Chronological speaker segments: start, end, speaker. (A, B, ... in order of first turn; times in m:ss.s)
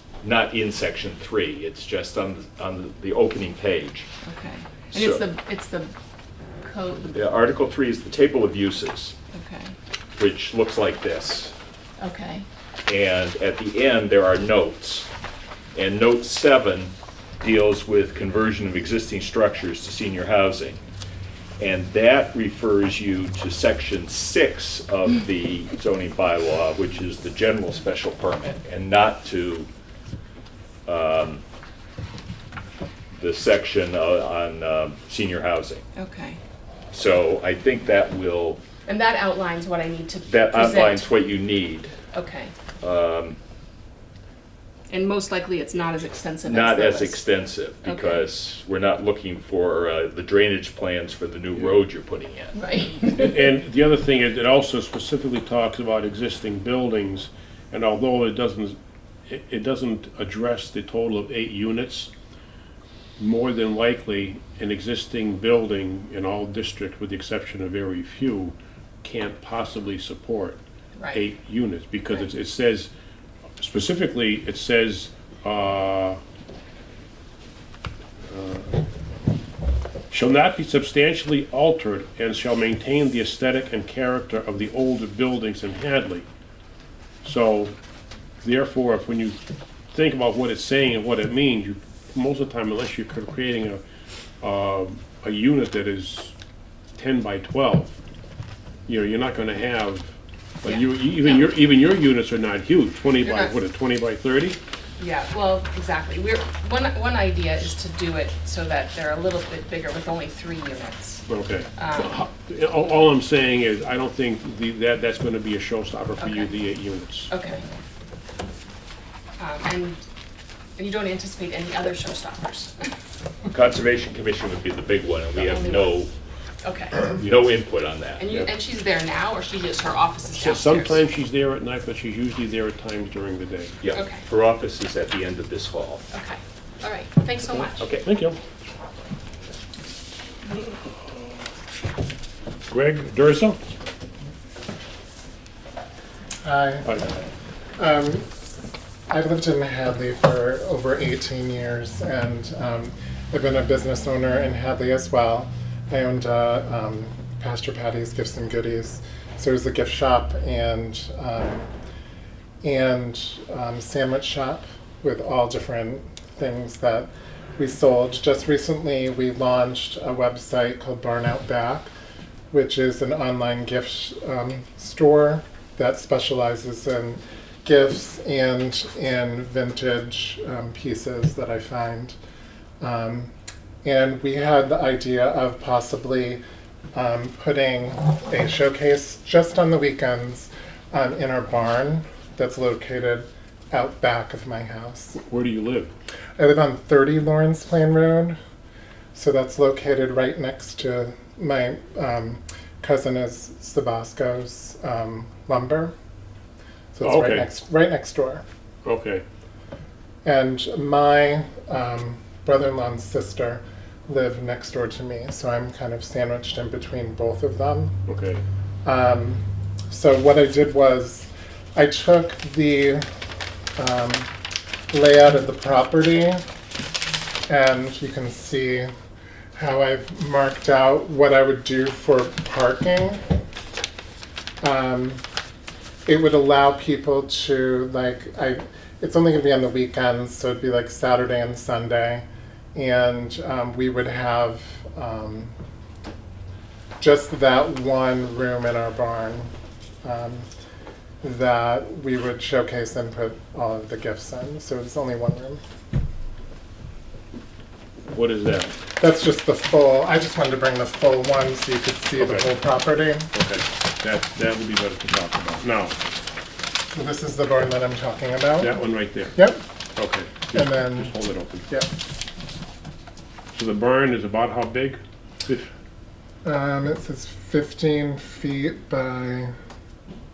0:00.2-0:04.1 A
0:04.2-0:05.9 B
0:04.9-0:05.2 A
0:06.6-0:07.2 B
0:07.1-0:09.2 A
0:09.3-0:09.8 B
0:10.2-0:11.5 A
0:12.0-0:12.5 B
0:12.9-0:15.1 A
0:15.8-0:20.8 A
0:21.6-0:29.7 A
0:30.9-0:31.4 A
0:33.2-0:35.8 A
0:36.0-0:36.4 B
0:36.9-0:38.6 A
0:38.9-0:41.1 B
0:40.3-0:41.9 A
0:42.1-0:42.5 B
0:42.8-0:43.4 A
0:44.9-0:47.2 B
0:46.4-0:52.6 A
0:47.8-0:48.3 B
0:52.5-0:53.4 B
0:53.1-1:02.1 C
1:03.2-1:10.6 C
1:11.0-1:11.2 B
1:11.1-1:12.9 C
1:13.6-1:16.2 C
1:18.3-1:18.7 C
1:20.1-1:26.3 C
1:27.2-1:27.8 C
1:28.4-1:29.4 C
1:29.9-1:33.8 C
1:34.4-1:36.3 C
1:37.0-1:38.0 C
1:38.9-1:40.1 C
1:40.6-1:44.6 C
1:40.6-1:41.5 B
1:43.2-1:43.5 B
1:45.0-1:51.2 B
1:51.3-1:57.3 C
1:51.8-1:52.2 B
1:56.2-1:56.6 B
1:57.3-1:57.6 B
1:59.4-2:00.0 B
2:00.8-2:02.9 B
2:03.5-2:06.1 A
2:05.4-2:06.0 B
2:06.6-2:07.2 B
2:07.1-2:08.4 A
2:08.2-2:11.0 B
2:10.3-2:13.7 C
2:13.8-2:16.0 A
2:13.9-2:14.2 B
2:16.1-2:17.8 B
2:17.6-2:18.1 A
2:18.0-2:18.4 C
2:20.5-2:21.3 C
2:22.7-2:23.6 C
2:26.4-2:26.9 D
2:26.8-2:27.2 C
2:27.8-2:28.3 D
2:29.1-2:41.7 D
2:42.6-2:51.9 D
2:52.5-3:02.2 D
3:02.8-3:03.3 D
3:03.8-3:06.4 D
3:06.9-3:15.2 D
3:15.2-3:15.9 C
3:16.4-3:18.4 D
3:19.1-3:25.9 D
3:26.9-3:28.4 D
3:27.0-3:27.5 C
3:28.8-3:29.2 C
3:30.2-3:38.0 D
3:38.1-3:38.4 C
3:38.8-3:43.0 D
3:43.8-3:44.3 D
3:44.9-3:46.4 D
3:47.5-3:48.9 D
3:49.5-3:53.2 D
3:54.6-3:55.2 D
3:56.1-4:05.5 D
4:07.0-4:09.5 D
4:10.0-4:10.5 D
4:11.2-4:15.6 D
4:18.1-4:18.7 C
4:19.0-4:23.3 D
4:22.2-4:22.5 C
4:23.3-4:26.0 C
4:26.9-4:28.7 D
4:28.6-4:29.4 C
4:29.4-4:29.6 D
4:30.0-4:31.7 C
4:30.5-4:31.1 D
4:31.7-4:32.0 D
4:33.5-4:35.7 C
4:36.4-4:39.5 D